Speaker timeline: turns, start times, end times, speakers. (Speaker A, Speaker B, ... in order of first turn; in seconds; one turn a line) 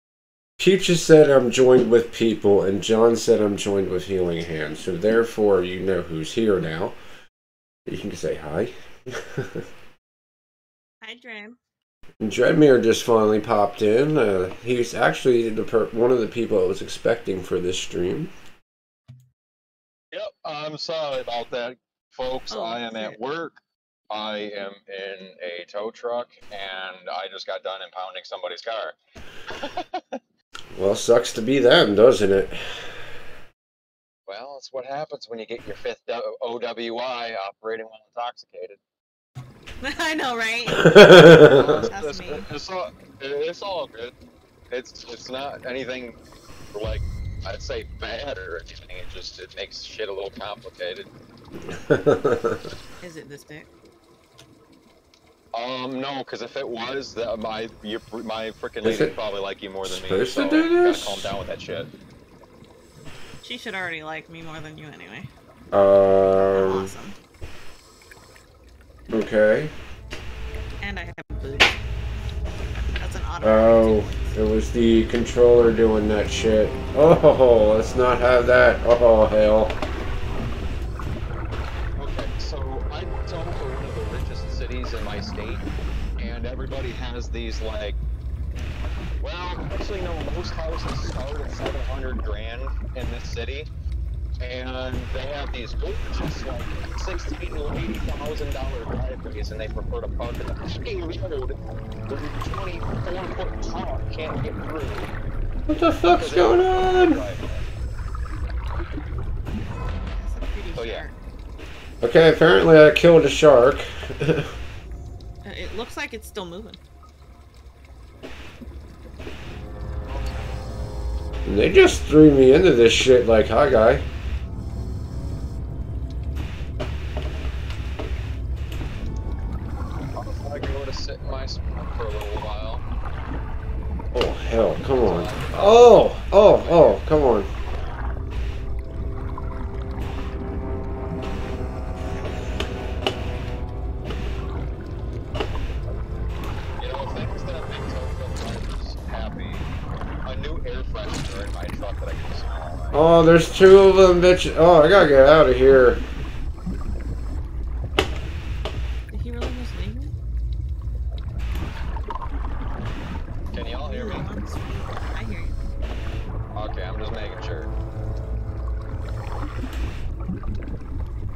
Speaker A: 0.6-7.0
Speaker A: 7.9-8.7
Speaker A: 9.3-9.6
Speaker B: 11.0-11.6
Speaker A: 12.2-18.3
Speaker C: 20.1-23.6
Speaker B: 22.5-23.2
Speaker C: 24.1-28.9
Speaker C: 29.6-30.1
Speaker A: 30.8-32.5
Speaker C: 34.3-38.8
Speaker B: 39.8-40.9
Speaker A: 40.7-41.7
Speaker C: 41.4-44.1
Speaker B: 41.8-42.5
Speaker C: 44.7-46.1
Speaker C: 46.7-51.1
Speaker A: 51.7-52.6
Speaker B: 53.0-53.7
Speaker C: 55.5-61.9
Speaker A: 58.8-59.1
Speaker A: 59.8-61.3
Speaker B: 63.4-65.3
Speaker A: 65.7-66.9
Speaker B: 66.4-67.1
Speaker A: 69.1-69.7
Speaker B: 70.8-71.8
Speaker B: 73.0-74.3
Speaker A: 73.4-79.7
Speaker C: 82.0-85.7
Speaker C: 86.2-88.0
Speaker C: 89.2-93.7
Speaker C: 94.4-101.6
Speaker C: 102.1-105.1
Speaker A: 105.7-107.2
Speaker C: 106.1-107.5
Speaker B: 110.1-111.2
Speaker C: 110.7-111.0
Speaker A: 112.0-114.5
Speaker B: 115.4-116.8
Speaker C: 120.1-120.5
Speaker A: 121.5-124.0
Speaker C: 130.2-132.8
Speaker A: 134.1-137.5
Speaker C: 134.9-137.1
Speaker C: 146.8-149.7
Speaker C: 150.2-153.0
Speaker A: 152.9-156.0
Speaker B: 159.1-160.1
Speaker C: 163.5-164.3
Speaker B: 163.8-165.6
Speaker C: 166.5-167.7